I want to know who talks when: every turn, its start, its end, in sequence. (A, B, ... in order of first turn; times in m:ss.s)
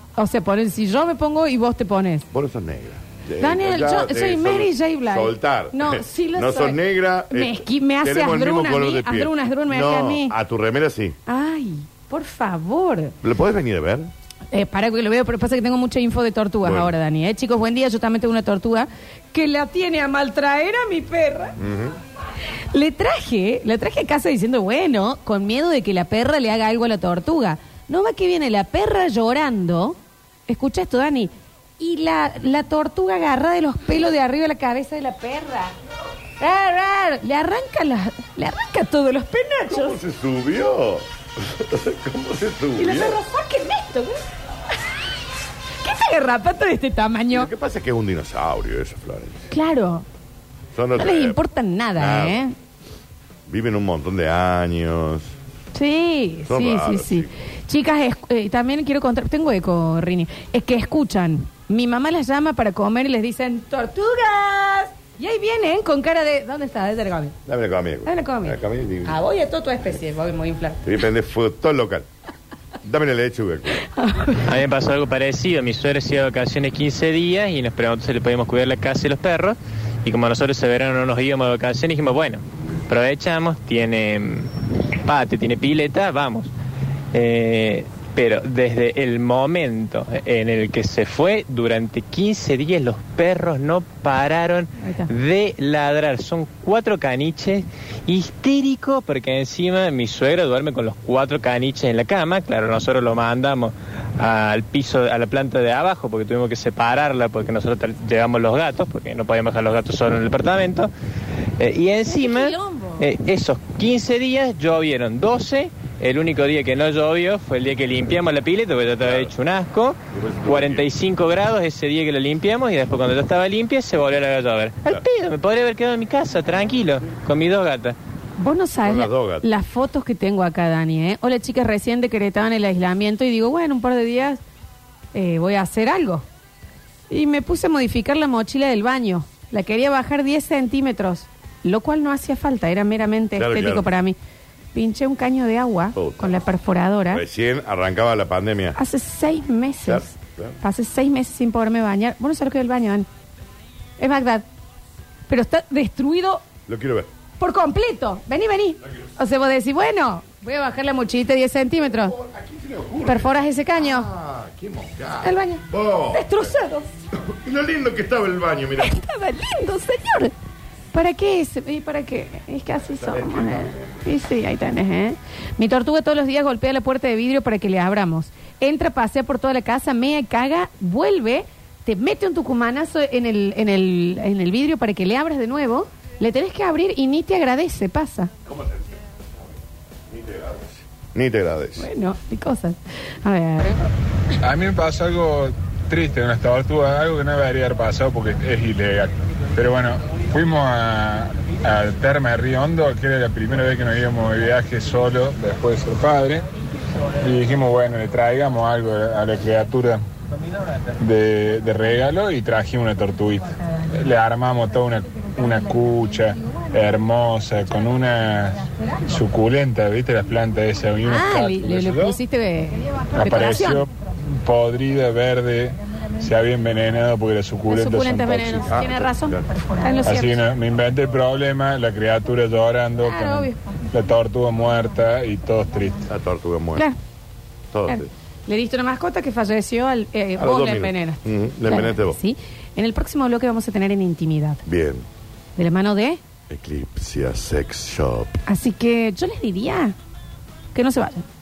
0:00.2-0:02.3 A
0:02.3-0:11.2 B
0:03.4-0:06.8 A
0:07.3-0:10.4 A
0:11.3-0:13.2 A
0:13.2-0:14.1 B
0:14.5-0:21.6 A
0:16.6-0:17.0 B
0:21.6-0:22.0 B
0:22.7-0:30.0 A
0:30.5-0:35.7 A
0:36.4-0:40.0 A
0:39.7-0:43.2 B
0:42.8-0:44.3 A
0:45.8-0:47.5 A
0:47.3-0:49.5 B
0:49.5-0:50.0 A
0:50.7-0:51.4 B
0:51.0-0:52.5 A
0:52.0-0:52.4 B
0:53.5-0:55.4 B
0:55.7-1:07.4 A
0:56.5-0:57.3 B
1:07.5-1:09.2 B
1:08.0-1:10.8 A
1:10.8-1:12.1 B
1:12.8-1:13.8 B
1:13.9-1:14.4 A
1:14.4-1:24.5 C
1:25.0-1:26.5 C
1:27.1-1:50.9 C
1:34.8-1:35.1 A
1:51.6-2:08.0 C
1:52.1-1:53.1 A
1:59.0-1:59.3 B
2:00.1-2:00.9 B
2:08.4-2:14.4 A
2:08.8-2:09.5 B
2:15.1-2:16.3 A
2:17.1-2:24.2 A
2:23.4-2:23.9 B
2:24.7-2:27.2 A
2:25.9-2:26.4 B
2:27.1-2:28.8 B
2:28.8-2:33.1 A
2:29.8-2:30.6 B
2:34.0-2:34.4 A
2:35.3-2:36.4 A
2:36.7-2:37.1 B
2:37.4-2:42.2 A
2:41.8-2:46.5 B
2:43.0-2:44.1 A
2:45.2-2:46.9 A
2:47.1-2:49.0 B
2:48.8-2:50.3 A
2:50.9-3:08.3 A
2:52.9-2:54.0 B
3:08.5-3:09.0 B
3:10.1-3:11.9 B
3:11.8-3:13.9 A
3:14.4-3:26.4 D
3:27.2-3:30.0 D
3:31.0-3:42.2 D
3:41.0-3:43.9 A
3:43.2-3:43.9 D
3:44.4-3:48.7 D
3:47.7-3:50.4 A
3:48.6-3:49.5 B
3:50.0-3:56.1 D
3:53.0-3:53.6 A
3:56.1-3:56.9 B
3:57.7-3:58.1 B
3:57.9-4:04.6 A
4:00.4-4:02.2 B
4:04.7-4:05.1 B
4:05.6-4:06.2 A
4:06.5-4:08.4 B
4:08.5-4:10.0 A
4:10.7-4:11.2 A